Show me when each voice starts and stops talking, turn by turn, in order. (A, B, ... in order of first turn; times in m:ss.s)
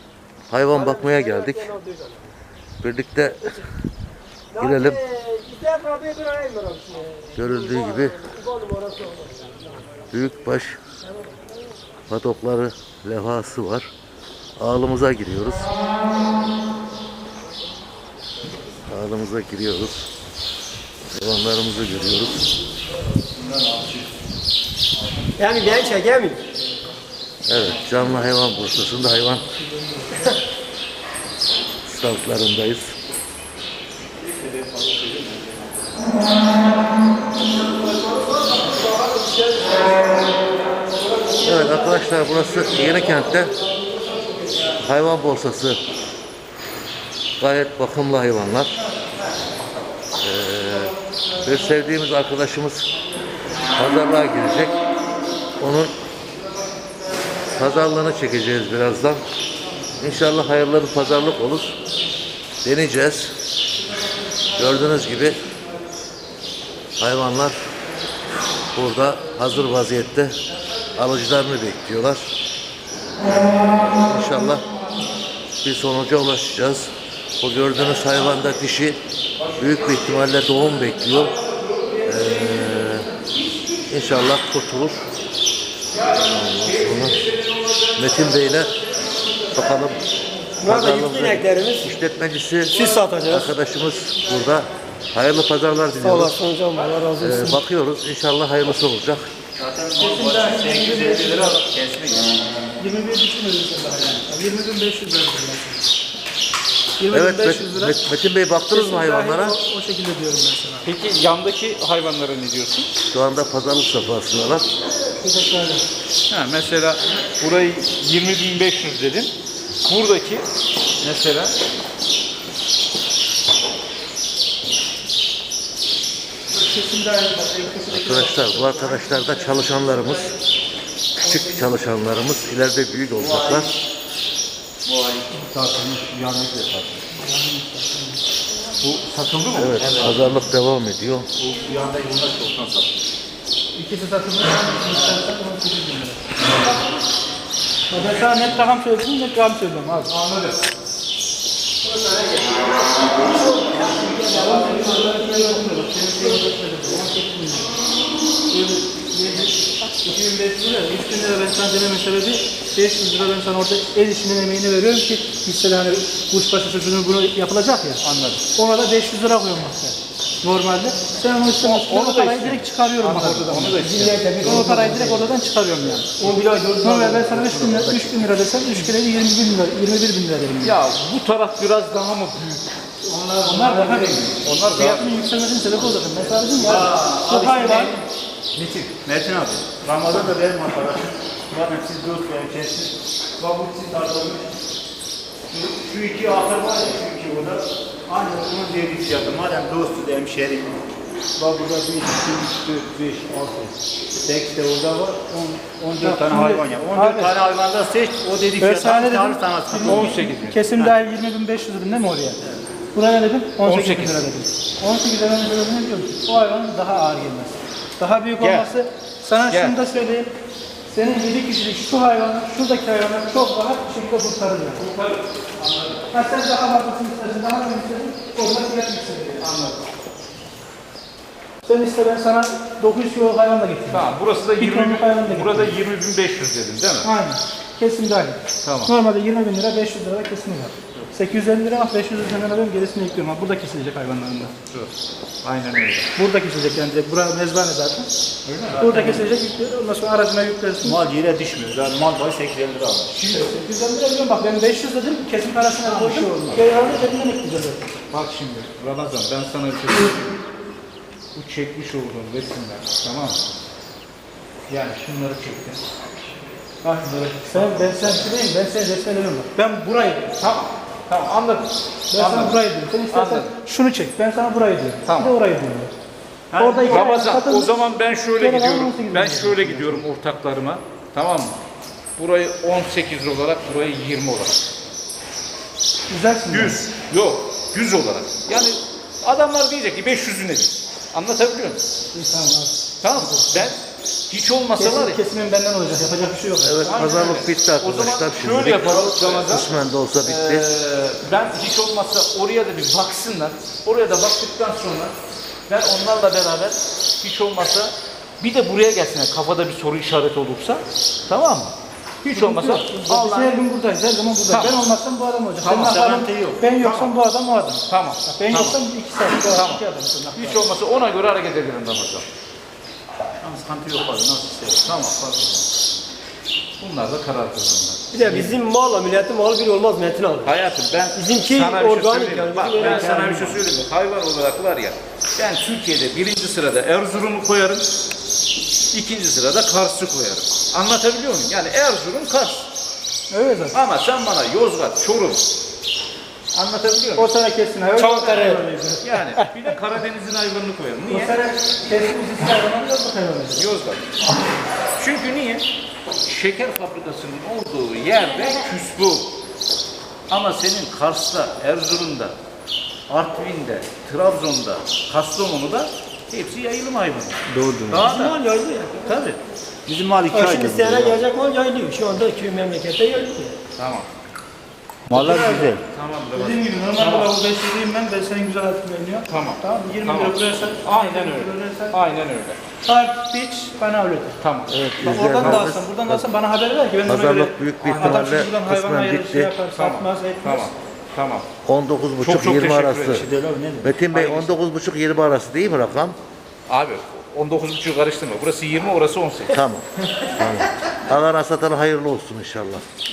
0:00.5-0:01.7 A
0:00.7-0:02.3 B
0:02.8-0:03.6 A
0:04.5-0:10.0 B
0:04.6-0:05.0 A
0:07.4-0:08.2 A
0:10.1-0:10.8 A
0:11.0-0:11.3 B
0:12.1-0:13.9 A
0:14.6-0:15.7 A
0:18.8-0:20.0 A
0:21.1-0:22.5 A
0:23.3-0:24.1 C
0:25.0-0:25.9 C
0:25.4-0:26.4 B
0:27.5-0:29.5 A
0:27.8-0:28.2 C
0:31.8-0:32.9 A
0:34.2-0:35.9 C
0:37.7-0:40.2 B
0:40.9-0:41.4 B
0:41.4-0:43.5 A
0:42.8-0:44.6 B
0:44.8-0:45.8 A
0:47.4-0:48.7 A
0:50.2-0:52.9 A
0:53.7-0:54.8 A
0:55.6-0:55.9 A
0:57.5-0:59.2 A
1:00.0-1:01.7 A
1:02.6-1:03.3 A
1:04.5-1:05.5 A
1:07.0-1:07.6 A
1:08.8-1:10.4 A
1:11.0-1:12.3 A
1:13.6-1:14.6 A
1:15.6-1:19.0 A
1:19.4-1:24.0 D
1:19.6-1:21.3 A
1:22.0-1:23.1 A
1:23.9-1:25.0 A
1:25.9-1:30.0 D
1:26.1-1:27.2 A
1:28.0-1:28.7 A
1:29.5-1:30.0 A
1:30.6-1:31.9 B
1:30.6-1:36.4 A
1:32.7-1:33.5 B
1:36.0-1:37.6 B
1:37.2-1:39.3 A
1:39.6-1:42.5 C
1:40.0-1:41.6 E
1:42.8-1:45.9 E
1:47.0-1:48.0 E
1:47.1-1:49.6 A
1:48.7-1:50.9 E
1:50.8-1:52.9 D
1:53.1-1:54.6 A
1:55.1-1:55.8 E
1:56.3-1:59.3 D
1:59.8-2:00.5 D
2:01.0-2:01.6 D
2:06.5-2:10.2 E
2:07.9-2:10.3 A
2:11.2-2:13.7 A
2:13.1-2:13.7 C
2:14.8-2:17.0 C
2:17.1-2:18.2 E
2:18.8-2:19.9 D
2:19.5-2:21.3 A
2:19.8-2:20.3 C
2:21.4-2:23.0 C
2:23.7-2:26.2 E
2:27.9-2:30.1 E
2:30.1-2:30.6 D
2:31.8-2:35.6 B
2:34.0-2:37.7 E
2:38.5-2:48.0 E
2:48.0-2:48.4 D
2:48.5-2:53.8 E
2:51.6-2:54.7 D
2:53.8-2:55.3 B
2:54.4-2:56.1 E
2:56.2-2:57.8 B
2:56.8-3:00.8 E
3:00.6-3:02.6 D
3:03.0-3:04.4 C
3:03.4-3:08.0 E
3:04.4-3:05.2 D
3:06.5-3:14.5 C
3:15.5-3:20.8 C
3:21.4-3:30.2 C
3:26.0-3:27.4 E
3:28.6-3:32.4 E
3:29.8-3:30.9 D
3:32.9-3:40.3 E
3:33.6-3:34.2 D
3:38.4-3:38.7 D
3:39.5-3:39.8 D
3:40.9-3:44.8 E
3:44.7-3:46.1 D
3:46.1-3:49.5 E
3:49.4-3:49.8 D
3:51.6-3:55.8 E
3:53.9-3:57.1 D
3:57.0-4:04.5 E
3:58.6-3:58.9 D
4:05.4-4:06.1 D
4:06.2-4:08.1 E
4:08.4-4:08.9 D
4:08.8-4:09.2 C
4:08.8-4:11.0 E
4:10.8-4:13.1 C
4:13.1-4:13.5 D
4:13.2-4:17.9 E
4:15.8-4:16.6 C
4:18.1-4:20.4 D
4:21.3-4:23.4 D
4:24.7-4:25.8 D
4:26.8-4:28.2 D
4:27.5-4:30.3 E
4:30.4-4:33.5 D
4:32.1-4:35.9 E
4:35.0-4:35.3 D
4:36.5-4:37.1 C
4:36.6-4:37.8 E
4:36.9-4:41.6 D
4:38.4-4:40.0 E
4:42.2-4:44.6 D
4:46.1-4:46.8 E
4:46.5-4:51.8 D
4:52.1-4:53.7 E
4:53.0-4:55.2 D
4:54.8-4:57.2 E
4:56.6-5:00.6 A
4:56.9-4:59.7 D
5:00.2-5:05.1 D
5:05.7-5:13.6 D
5:12.3-5:20.6 E
5:14.5-5:14.7 D
5:15.6-5:16.6 C
5:16.8-5:17.2 D
5:17.9-5:18.8 D
5:19.4-5:19.8 D
5:20.4-5:22.2 D
5:23.4-5:24.8 C
5:24.8-5:25.7 D
5:26.8-5:28.5 D
5:28.1-5:30.5 B
5:30.4-5:37.9 D
5:31.1-5:33.6 B
5:32.8-5:33.6 C
5:38.9-5:42.7 D
5:43.3-5:43.8 E
5:43.7-5:45.4 D
5:46.5-5:47.3 D
5:47.2-5:48.7 E
5:48.0-5:49.5 B
5:49.0-5:51.4 D
5:51.1-5:53.6 E
5:53.5-5:54.1 D
5:55.0-5:55.7 D
5:56.2-5:59.3 D
6:00.3-6:02.3 D
6:03.1-6:08.4 D
6:07.5-6:08.1 C
6:08.0-6:09.2 B
6:09.0-6:09.4 D
6:09.9-6:11.2 C
6:10.3-6:13.6 B
6:13.8-6:14.1 D
6:15.1-6:15.8 C
6:15.1-6:15.7 E
6:15.9-6:17.3 D
6:16.3-6:22.0 E
6:19.3-6:22.6 D
6:22.8-6:24.4 E
6:24.4-6:25.7 D
6:24.7-6:26.2 A
6:25.0-6:30.7 E
6:27.0-6:29.6 A
6:27.8-6:28.3 D
6:29.7-6:31.5 D
6:31.6-6:33.3 A
6:32.2-6:33.3 D
6:33.1-6:34.2 C
6:33.8-6:36.2 A
6:34.1-6:34.5 D
6:36.7-6:39.5 D
6:39.5-6:42.8 A